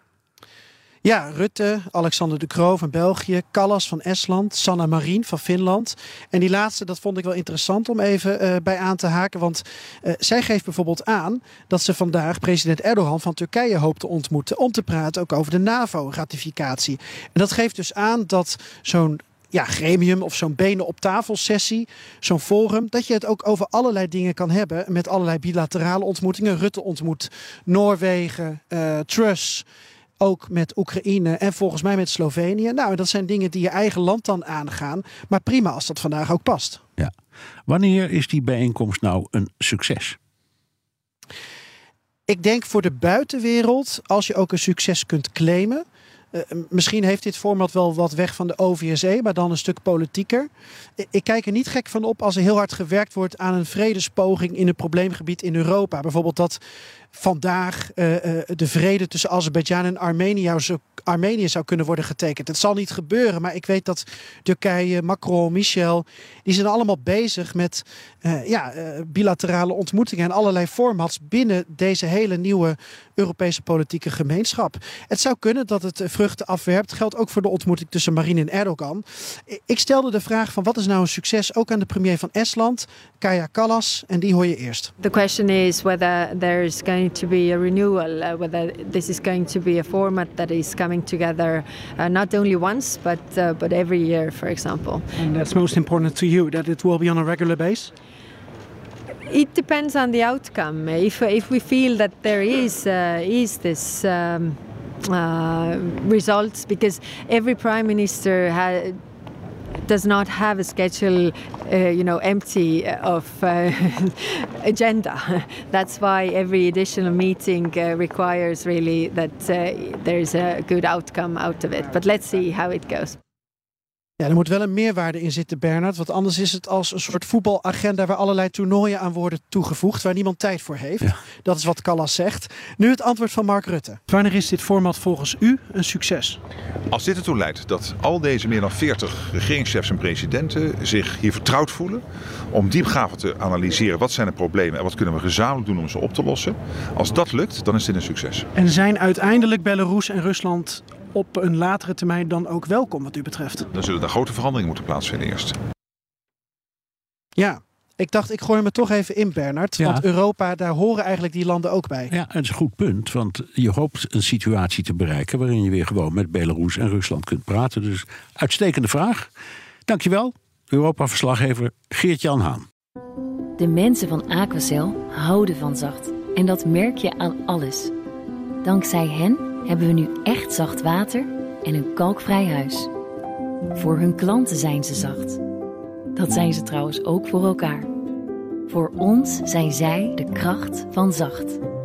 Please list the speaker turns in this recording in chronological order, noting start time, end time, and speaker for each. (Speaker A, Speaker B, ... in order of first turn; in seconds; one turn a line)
Speaker A: 1.0-29.7
Speaker A: 30.2-36.9
Speaker B: 37.7-40.2
Speaker A: 42.3-56.6
Speaker A: 57.1-84.9
Speaker C: 85.0-95.1
Speaker A: 95.2-97.9
Speaker C: 99.3-109.0
Speaker C: 109.9-123.2
Speaker A: 124.2-136.4
Speaker D: 136.9-148.5
Speaker A: 148.6-153.7
Speaker D: 153.7-155.6
Speaker A: 157.4-162.1
Speaker B: 162.1-169.3
Speaker B: 169.9-172.7
Speaker E: 173.6-177.9
Speaker E: 178.6-182.9
Speaker E: 183.8-185.4
Speaker E: 186.2-187.9
Speaker E: 188.7-191.6